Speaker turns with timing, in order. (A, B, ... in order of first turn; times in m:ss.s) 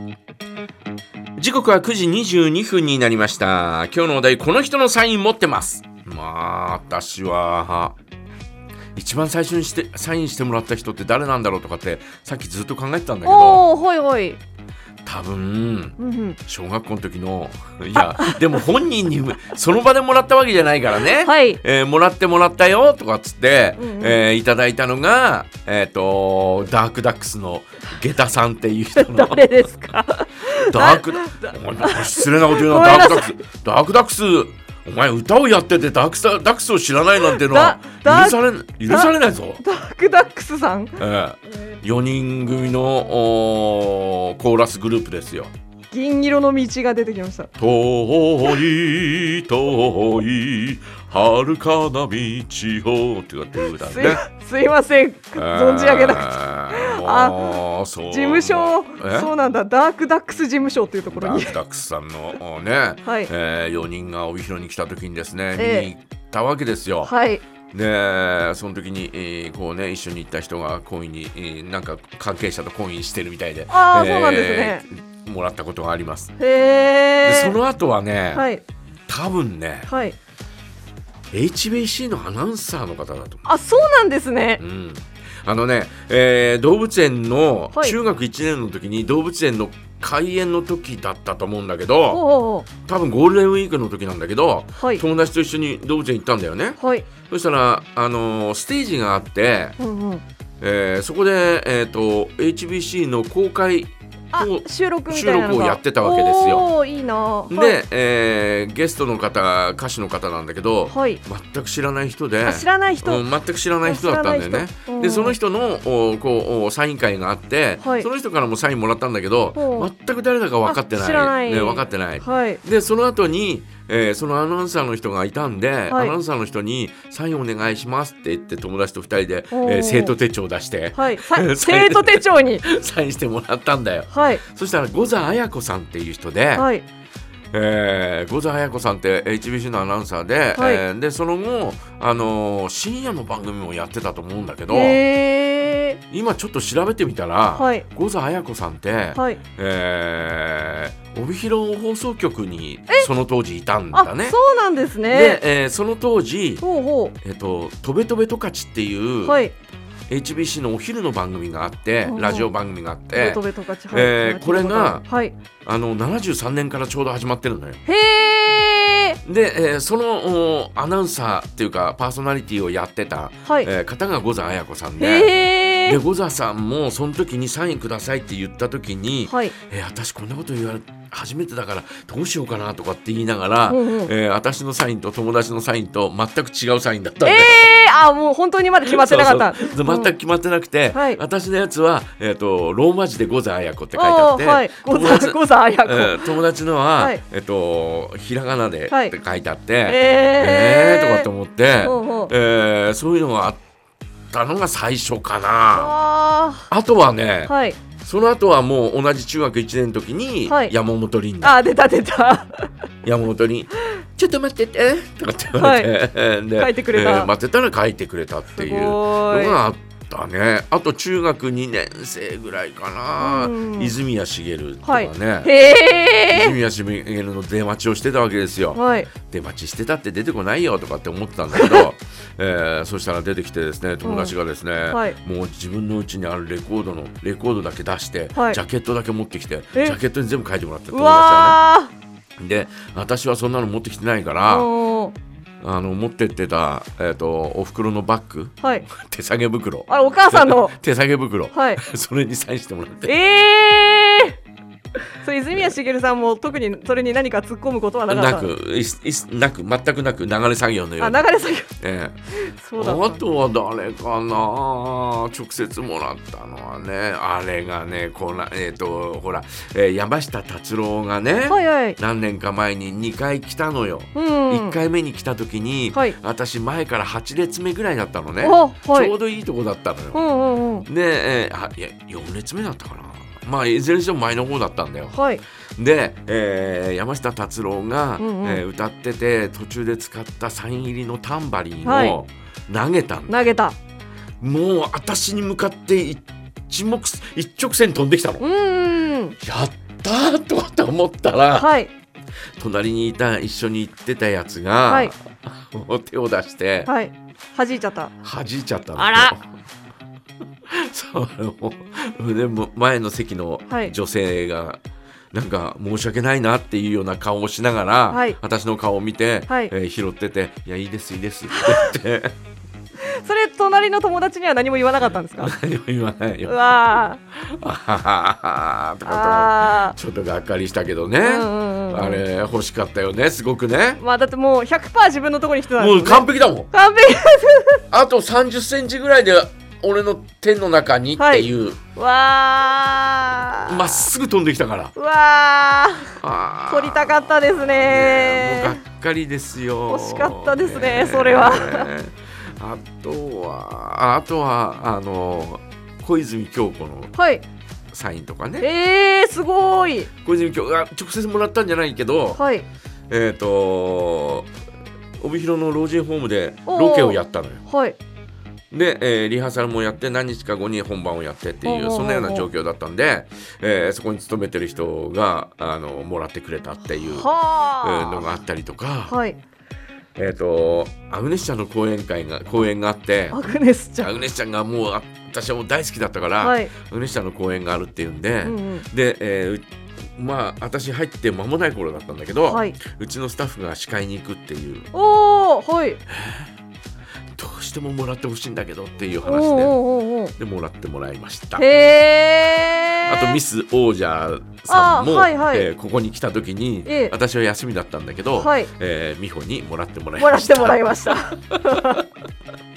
0:01.4-0:08.0 A
0:09.0-0:13.7 A
0:13.2-0:14.4 B
0:15.1-0:29.7 A
0:16.0-0:16.4 B
0:21.1-0:21.6 B
0:23.8-0:24.2 B
0:29.0-0:33.3 B
0:30.5-0:39.6 A
0:37.3-0:41.0 B
0:41.0-0:45.5 A
0:45.9-0:47.5 B
0:47.6-0:54.2 A
0:53.7-1:01.6 B
0:55.4-0:59.3 A
1:01.1-1:07.1 A
1:03.0-1:03.3 B
1:05.6-1:05.9 B
1:07.0-1:07.4 B
1:07.7-1:16.3 A
1:13.7-1:14.8 B
1:16.4-1:17.6 B
1:17.2-1:18.4 A
1:18.3-1:18.6 B
1:19.1-1:19.9 A
1:19.9-1:20.2 B
1:21.3-1:23.4 A
1:23.4-1:24.6 B
1:24.6-1:32.2 A
1:32.1-1:32.7 B
1:32.8-1:39.8 A
1:34.8-1:35.0 B
1:36.8-1:37.1 B
1:39.8-1:40.2 B
1:40.6-1:46.7 A
1:44.3-1:47.8 B
1:47.5-2:16.7 A
1:50.9-1:51.2 B
1:52.4-1:53.2 B
1:53.8-1:55.4 B
1:57.8-1:58.1 B
1:59.6-1:59.9 B
2:00.6-2:02.6 B
2:05.9-2:06.2 B
2:09.5-2:10.2 B
2:10.9-2:12.6 B
2:14.1-2:14.4 B
2:16.6-2:16.8 B
2:17.5-2:25.0 A
2:20.6-2:20.8 B
2:24.7-2:26.0 B
2:26.1-2:34.4 A
2:27.6-2:27.9 B
2:29.2-2:29.4 B
2:33.9-2:35.4 B
2:35.1-2:36.6 A
2:36.6-2:37.2 B
2:37.2-2:39.4 A
2:39.2-2:39.5 B
2:40.1-2:45.0 A
2:42.0-2:42.5 B
2:43.1-2:45.4 B
2:45.6-2:47.8 A
2:47.8-2:49.2 B
2:49.2-3:07.7 A
2:55.0-2:56.0 B
2:59.3-2:59.6 B
3:03.7-3:04.1 B
3:07.2-3:10.1 B
3:08.8-3:23.6 A
3:10.9-3:11.2 B
3:13.9-3:16.3 B
3:18.9-3:19.2 B
3:19.9-3:21.3 B
3:21.8-3:22.3 B
3:24.3-3:25.9 A
3:25.7-3:26.7 B
3:26.7-3:31.6 A
3:27.5-3:27.8 B
3:30.5-3:30.7 B
3:31.4-3:32.7 B
3:33.0-3:45.5 A
3:35.6-3:35.9 B
3:36.6-3:37.3 B
3:38.6-3:39.6 B
3:43.2-3:43.9 B
3:44.8-3:46.6 B
3:46.3-4:01.6 A
3:48.8-3:49.1 B
3:51.5-3:51.9 B
3:54.0-3:54.3 B
3:54.9-3:55.2 B
3:58.4-3:58.6 B
4:00.9-4:01.9 B
4:02.4-4:04.7 A
4:04.5-4:05.2 B
4:05.6-4:13.2 A
4:08.6-4:08.9 B
4:09.9-4:10.8 B
4:11.5-4:11.8 B
4:13.0-4:14.4 B
4:15.2-4:18.5 B
4:18.1-4:22.2 A
4:21.0-4:21.7 B
4:22.3-4:23.3 B
4:22.8-4:40.2 A
4:31.5-4:32.0 B
4:34.1-4:34.8 B
4:38.4-4:39.1 B
4:40.1-4:40.9 B
4:40.9-4:45.2 A
4:45.1-4:45.4 B
4:45.8-4:53.5 A
4:48.2-4:48.6 B
4:51.8-4:52.2 B
4:53.3-4:53.8 B
4:54.4-4:58.5 A
4:58.4-4:59.4 B
4:59.4-5:01.7 A
5:01.6-5:01.9 B
5:02.6-5:06.9 A
5:04.9-5:05.1 B
5:06.9-5:08.1 B
5:08.2-5:09.4 A
5:09.0-5:09.3 B
5:10.7-5:14.8 A
5:13.7-5:13.9 B
5:15.3-5:22.4 A
5:18.1-5:18.4 B
5:21.5-5:21.9 B
5:23.0-5:25.5 B
5:25.4-5:34.0 A
5:26.5-5:27.2 B
5:29.0-5:30.0 B
5:31.2-5:32.2 B
5:34.0-5:37.8 B
5:35.7-5:36.7 A
5:37.9-5:41.8 A
5:41.2-5:44.1 B
5:43.7-5:44.9 A
5:45.0-5:46.2 B
5:46.2-5:57.2 A
5:46.7-5:48.8 B
5:49.9-5:51.9 B
5:57.1-5:57.4 B
5:57.9-5:58.7 A
5:58.6-6:00.1 B
6:00.2-6:02.4 A
6:02.4-6:02.7 B
6:03.1-6:04.5 A
6:05.2-6:07.6 A
6:06.7-6:08.0 B
6:08.7-6:17.3 A
6:11.6-6:12.5 B
6:17.1-6:18.3 B
6:17.8-6:19.2 A
6:19.1-6:19.4 B
6:20.2-6:23.4 A
6:23.3-6:24.1 B
6:24.0-6:34.9 A
6:26.4-6:26.7 B
6:28.4-6:28.9 B
6:32.5-6:32.8 B
6:34.9-6:36.0 B
6:36.1-6:36.5 A
6:37.3-6:39.8 A
6:39.2-6:40.3 B
6:40.4-6:41.7 A
6:41.6-6:43.4 B
6:43.0-6:52.0 A
6:44.7-6:45.7 B
6:46.9-6:47.1 B
6:48.4-6:48.7 B
6:50.2-6:52.0 B